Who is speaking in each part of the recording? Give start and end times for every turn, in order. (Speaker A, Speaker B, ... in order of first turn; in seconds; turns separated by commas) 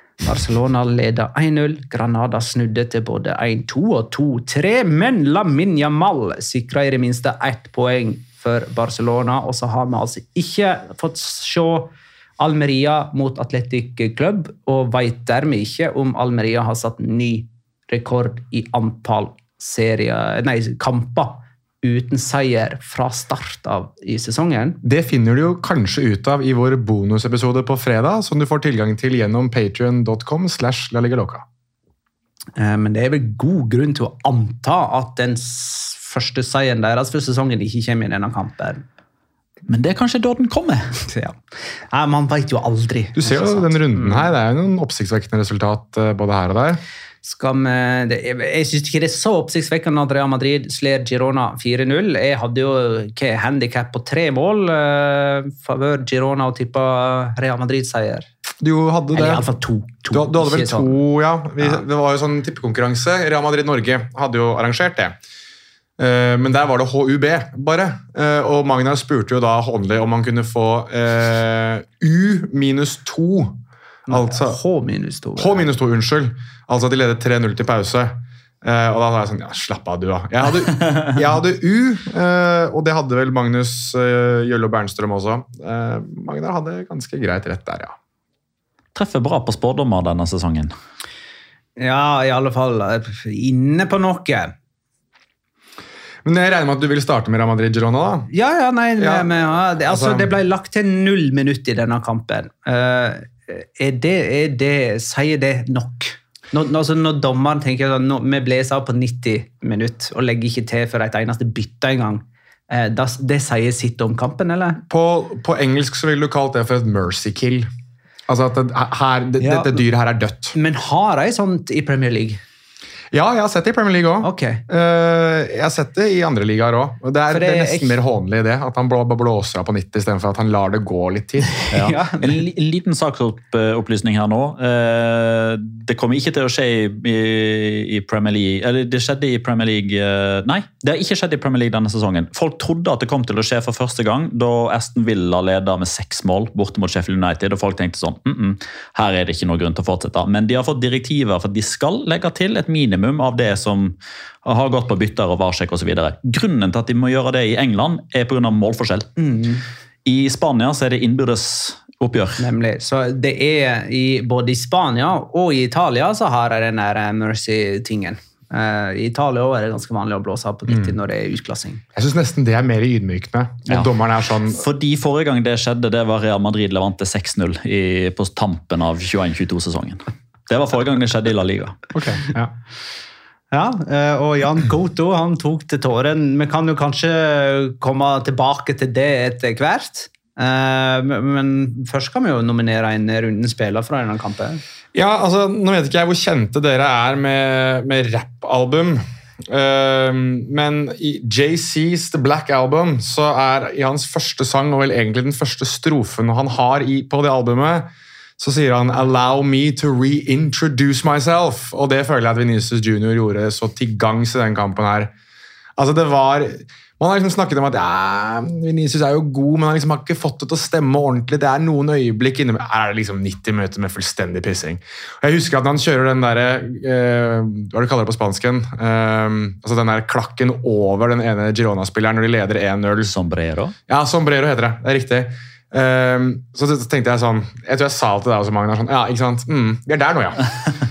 Speaker A: 0.2-24.8, Speaker B: 24.8-31.4, Speaker A: 32.6-38.8, Speaker C: 39.7-40.9, Speaker A: 41.0-41.4, Speaker A: 41.9-44.3, Speaker B: 43.2-46.8, Speaker A: 47.2-58.3, Speaker B: 58.6-59.5, Speaker A: 59.1-61.0, Speaker B: 60.1-65.2, Speaker B: 66.0-74.6, Speaker A: 74.1-75.7, Speaker B: 75.4-88.0, Speaker C: 89.0-90.7, Speaker A: 91.8-94.5, Speaker B: 96.2-98.3, Speaker A: 98.3-114.8, Speaker B: 99.0-100.3, Speaker B: 114.9-117.7, Speaker B: 118.3-120.6, Speaker A: 119.4-119.8, Speaker A: 120.5-122.4, Speaker B: 123.1-131.6, Speaker A: 124.2-124.6, Speaker A: 127.3-128.0, Speaker A: 131.7-132.4, Speaker C: 131.7-159.1, Speaker A: 159.2-159.6, Speaker C: 160.1-162.4, Speaker A: 162.4-171.8, Speaker B: 170.7-170.9, Speaker B: 171.9-174.6, Speaker C: 174.5-181.8, Speaker B: 181.9-182.5, Speaker A: 183.5-194.6, Speaker B: 194.9-215.1, Speaker B: 215.8-233.1, Speaker C: 233.0-233.8, Speaker B: 233.9-240.5